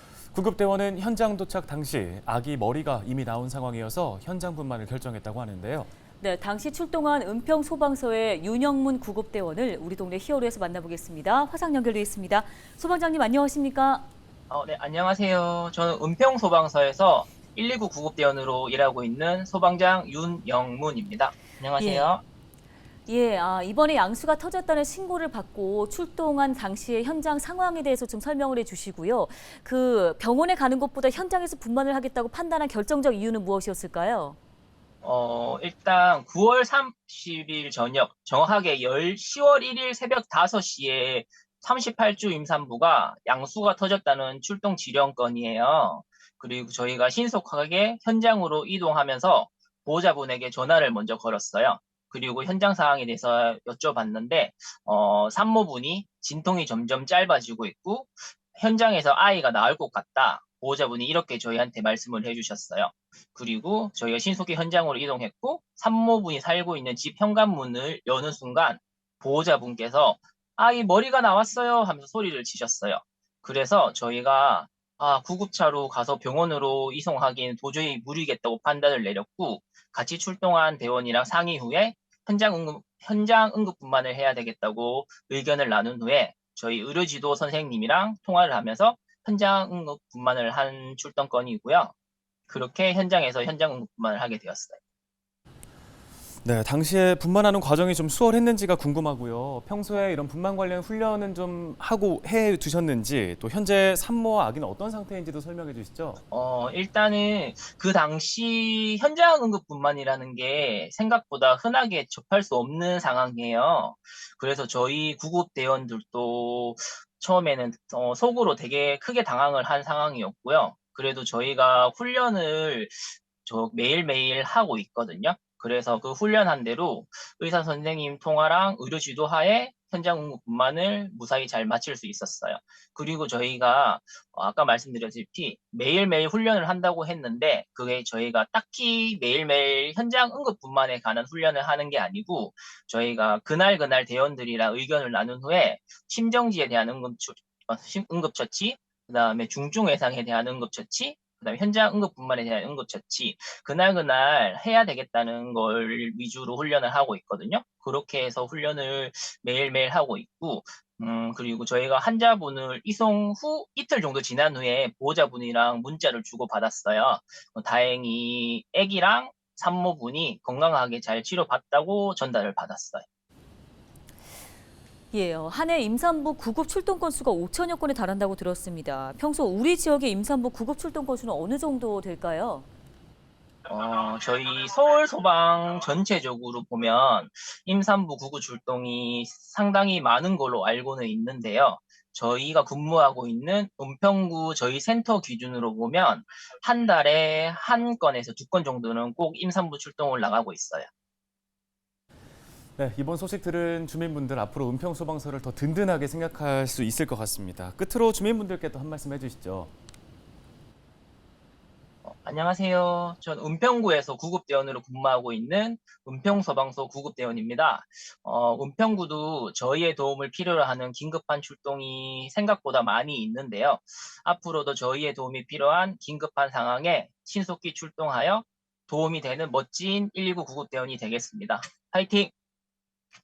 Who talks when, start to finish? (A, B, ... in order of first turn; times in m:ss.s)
0:00.3-0:05.9 A
0:06.2-0:14.1 B
0:14.5-0:22.2 C
0:21.8-0:22.1 B
0:23.1-0:34.4 B
0:35.0-1:31.9 C
1:32.5-1:34.8 C
1:36.4-1:46.2 A
1:46.3-2:53.0 C
2:55.1-3:02.7 B
3:03.7-3:20.9 C
3:22.8-3:29.7 A
3:32.0-3:52.3 C